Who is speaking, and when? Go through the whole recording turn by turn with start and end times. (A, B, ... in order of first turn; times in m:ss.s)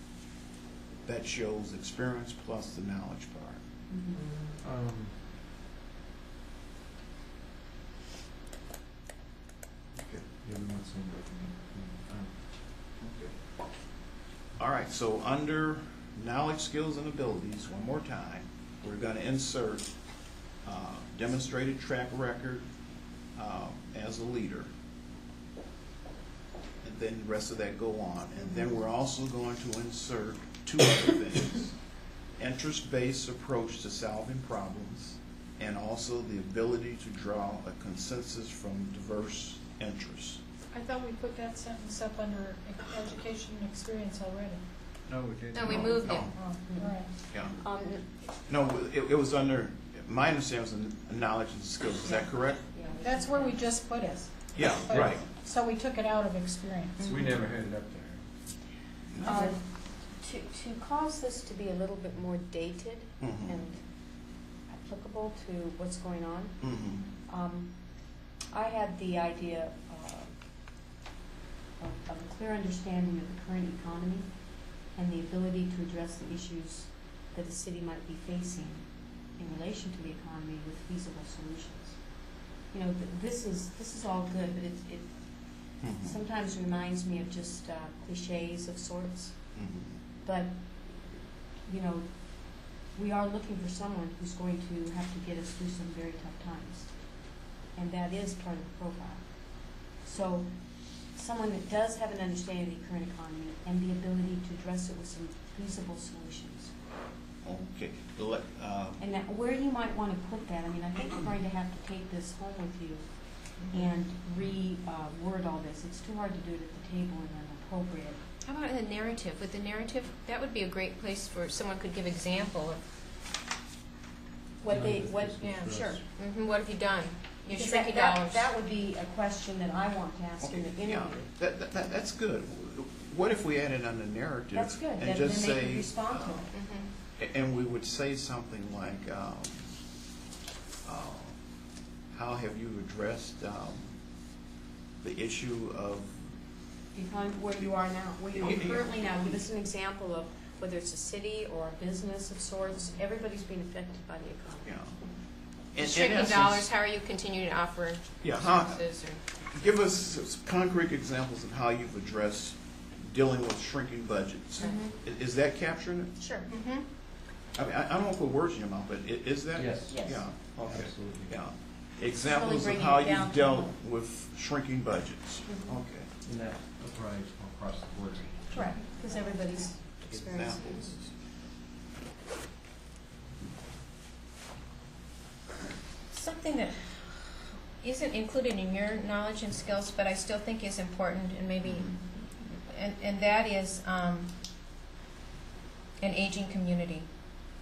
0:01.0-0:03.6 A
0:03.9-0:04.2 B
0:04.6-0:05.1 C
0:10.0-0:10.2 A
0:10.4-0:12.4 C
0:13.0-0:13.3 A
0:14.6-0:22.7 A
0:23.3-0:24.7 A
0:26.8-0:40.4 A
0:28.4-0:28.8 B
0:40.7-0:44.6 D
0:45.1-0:46.1 C
0:45.5-0:46.3 E
0:45.7-0:46.4 A
0:46.3-0:47.1 D
0:46.6-0:48.1 B
0:47.3-0:47.6 A
0:48.5-0:52.7 A
0:52.0-0:53.6 B
0:53.0-0:57.1 D
0:54.5-0:55.2 A
0:54.9-0:55.1 C
0:57.0-0:57.2 E
0:57.0-0:58.2 C
0:59.1-0:59.5 A
0:59.2-0:59.6 D
0:59.2-1:06.7 B
1:03.2-1:03.6 A
1:06.6-1:07.1 A
1:07.3-1:10.3 B
1:11.8-1:29.6 B
1:25.8-1:26.2 A
1:29.6-1:30.0 A
1:30.2-1:46.7 B
1:47.4-1:49.0 A
1:49.0-1:58.2 B
1:58.4-2:02.8 E
2:04.6-2:06.0 B
2:04.7-2:06.0 C
2:05.4-2:08.5 E
2:07.5-2:11.3 B
2:10.4-2:16.5 A
2:14.5-2:16.5 B
2:16.5-2:16.9 E
2:17.1-2:19.7 A
2:20.8-2:21.4 A
2:22.1-2:24.0 A
2:25.0-2:26.3 A
2:26.9-2:34.8 B
2:28.3-2:29.5 A
2:34.6-2:35.0 A
2:35.7-2:36.7 A
2:35.8-2:39.2 E
2:38.2-2:38.8 A
2:39.5-2:46.2 A
2:44.6-2:44.9 B
2:46.2-2:46.5 B
2:46.5-2:46.9 E
2:47.5-2:56.1 A
2:49.5-2:50.0 C
2:49.9-2:50.2 B
2:50.6-2:51.4 C
2:52.2-2:53.7 B
2:55.4-2:55.8 B
2:56.2-2:58.7 C
2:58.5-3:01.0 B
3:00.0-3:01.1 A
3:06.1-3:14.3 E
3:11.6-3:11.9 A
3:16.0-3:17.1 E